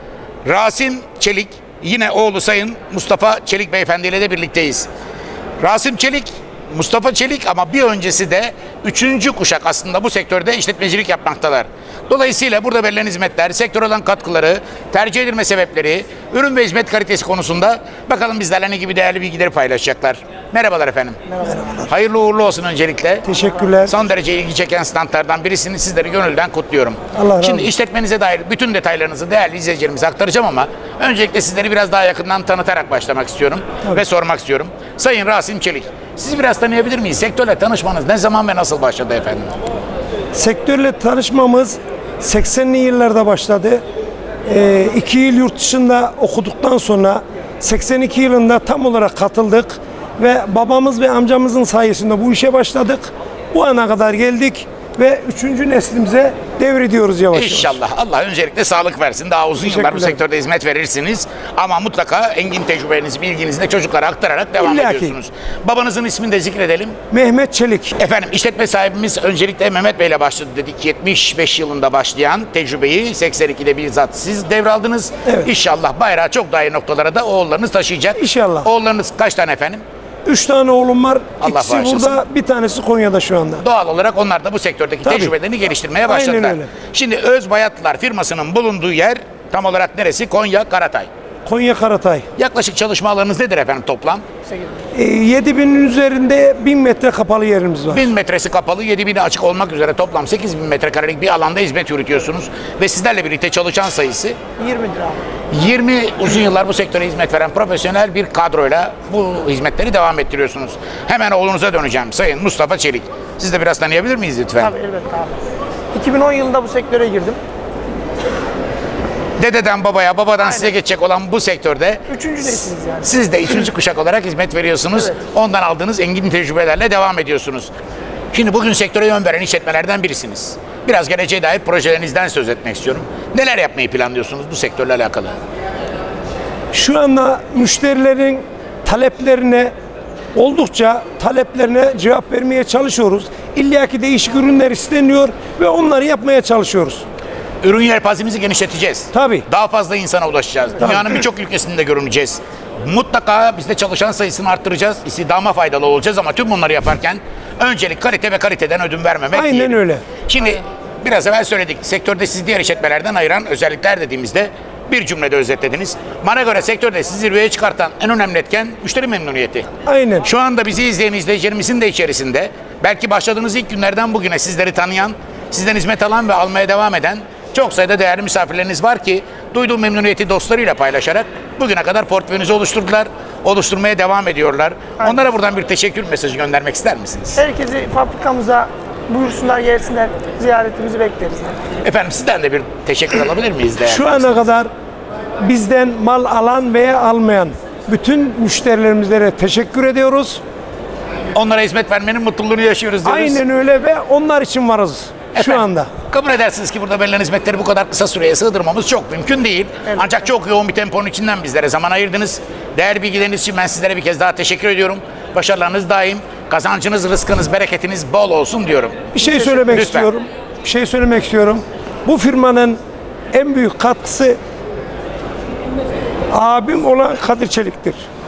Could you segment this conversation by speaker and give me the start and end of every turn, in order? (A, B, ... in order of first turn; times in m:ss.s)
0:00.4-0:04.9 A
0:05.6-0:23.3 A
0:21.4-0:21.9 B
0:23.2-0:23.9 B
0:23.8-0:39.5 A
0:27.1-0:27.7 B
0:40.3-0:43.8 B
0:44.4-0:57.8 B
0:57.3-1:07.0 A
0:59.6-1:00.2 B
1:04.6-1:05.1 B
1:07.1-1:07.9 B
1:08.0-1:19.8 A
1:18.2-1:18.7 B
1:20.2-1:23.6 B
1:21.4-1:22.2 A
1:23.6-1:31.1 A
1:25.0-1:25.3 B
1:26.0-1:26.7 B
1:31.4-1:32.2 B
1:32.4-1:34.2 A
1:34.9-1:38.1 B
1:37.9-1:44.4 A
1:44.6-1:45.2 C
1:45.5-1:54.8 A
1:54.6-1:55.4 C
1:55.9-1:57.4 C
1:59.4-2:07.7 A
2:02.1-2:03.0 C
2:08.3-2:15.4 A
2:16.7-2:19.7 B
2:20.4-2:27.0 B
2:27.6-2:49.7 A
2:29.1-2:29.4 B
2:39.3-2:40.0 B
2:49.9-2:50.3 B
2:50.2-3:07.4 A
3:07.4-3:11.6 C
3:11.8-3:14.3 A
3:13.8-3:14.7 B
3:15.4-3:20.4 B
3:21.3-3:23.4 A
3:23.0-3:25.9 B
3:25.4-3:40.1 A
3:39.1-3:42.8 B
3:43.3-3:44.4 B
3:46.3-3:48.0 B